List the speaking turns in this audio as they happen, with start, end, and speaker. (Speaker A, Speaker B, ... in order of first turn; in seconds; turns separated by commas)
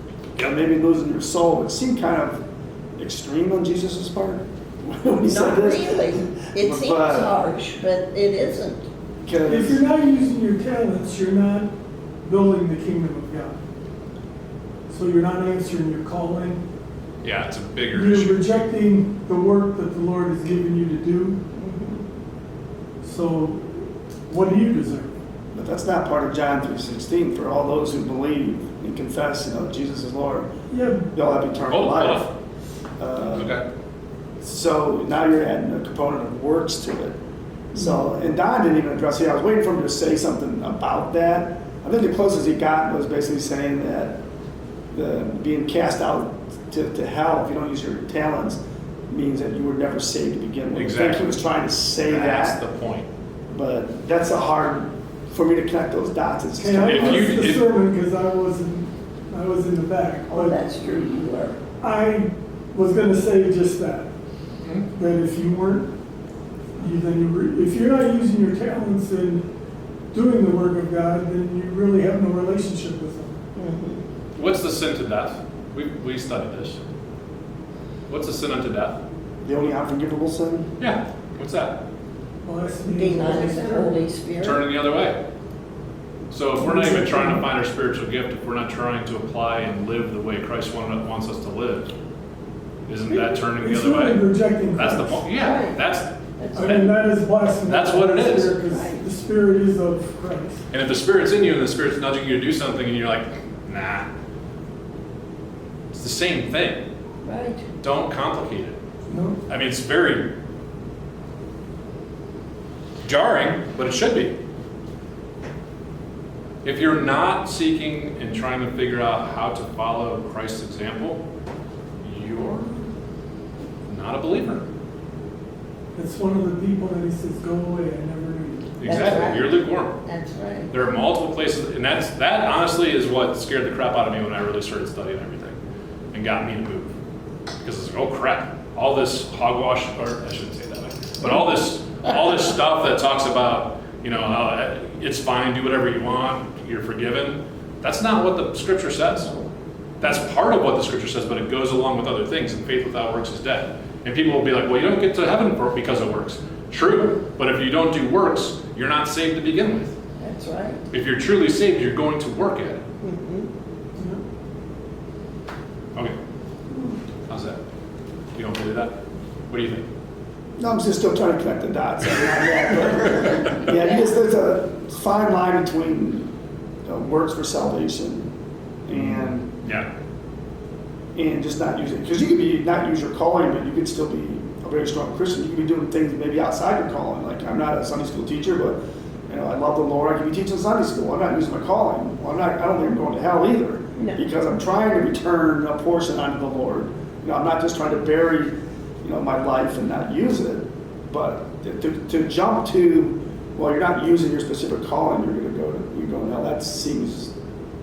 Speaker A: 0.4-2.4, Speaker A: 3.0-7.3, Speaker B: 5.3-8.8, Speaker A: 9.2-9.8, Speaker C: 9.5-11.7, Speaker C: 12.2-13.6, Speaker C: 14.9-16.6, Speaker D: 17.2-18.4, Speaker C: 17.9-21.4, Speaker B: 21.6-22.0, Speaker C: 23.0-25.1, Speaker A: 25.5-30.5, Speaker C: 30.7-31.1, Speaker A: 31.1-32.3, Speaker D: 31.7-32.3, Speaker A: 33.0-33.6, Speaker D: 33.3-33.6, Speaker A: 34.4-37.2, Speaker A: 37.7-44.2, Speaker A: 44.9-52.6, Speaker D: 50.7-51.4, Speaker D: 52.0-53.1, Speaker A: 53.5-57.4, Speaker C: 56.6-60.6, Speaker D: 56.8-57.7, Speaker B: 60.3-61.6, Speaker C: 61.8-64.1, Speaker D: 64.6-64.9, Speaker C: 64.9-65.9, Speaker C: 66.8-69.5, Speaker C: 70.1-73.4, Speaker B: 73.6-74.0, Speaker D: 74.4-76.8, Speaker D: 78.1-79.0, Speaker A: 79.4-80.7, Speaker D: 80.8-81.8, Speaker C: 82.4-84.0, Speaker B: 82.8-84.7, Speaker D: 84.4-85.2, Speaker D: 86.3-91.9, Speaker C: 86.6-87.5, Speaker D: 92.9-98.6, Speaker C: 93.1-95.3, Speaker B: 95.4-95.8, Speaker B: 96.4-96.8, Speaker C: 96.5-100.7, Speaker B: 98.7-99.1, Speaker D: 100.7-104.1, Speaker D: 105.9-106.8, Speaker B: 107.2-107.6, Speaker D: 107.8-108.8, Speaker C: 109.1-109.4, Speaker D: 109.5-110.3, Speaker D: 113.0-114.4, Speaker D: 116.6-121.2, Speaker D: 122.0-122.8, Speaker D: 123.9-124.7, Speaker C: 126.0-128.7, Speaker D: 128.8-130.0, Speaker B: 128.8-130.7, Speaker D: 130.7-135.6, Speaker D: 136.1-136.9, Speaker D: 137.6-149.3, Speaker D: 150.0-159.9, Speaker B: 160.2-160.8, Speaker D: 160.9-162.8, Speaker B: 163.0-163.5, Speaker D: 167.3-167.6, Speaker D: 168.3-168.9, Speaker D: 169.5-169.9, Speaker A: 170.6-176.3, Speaker A: 176.9-178.3, Speaker A: 178.9-179.5, Speaker D: 178.9-179.9, Speaker A: 181.2-207.3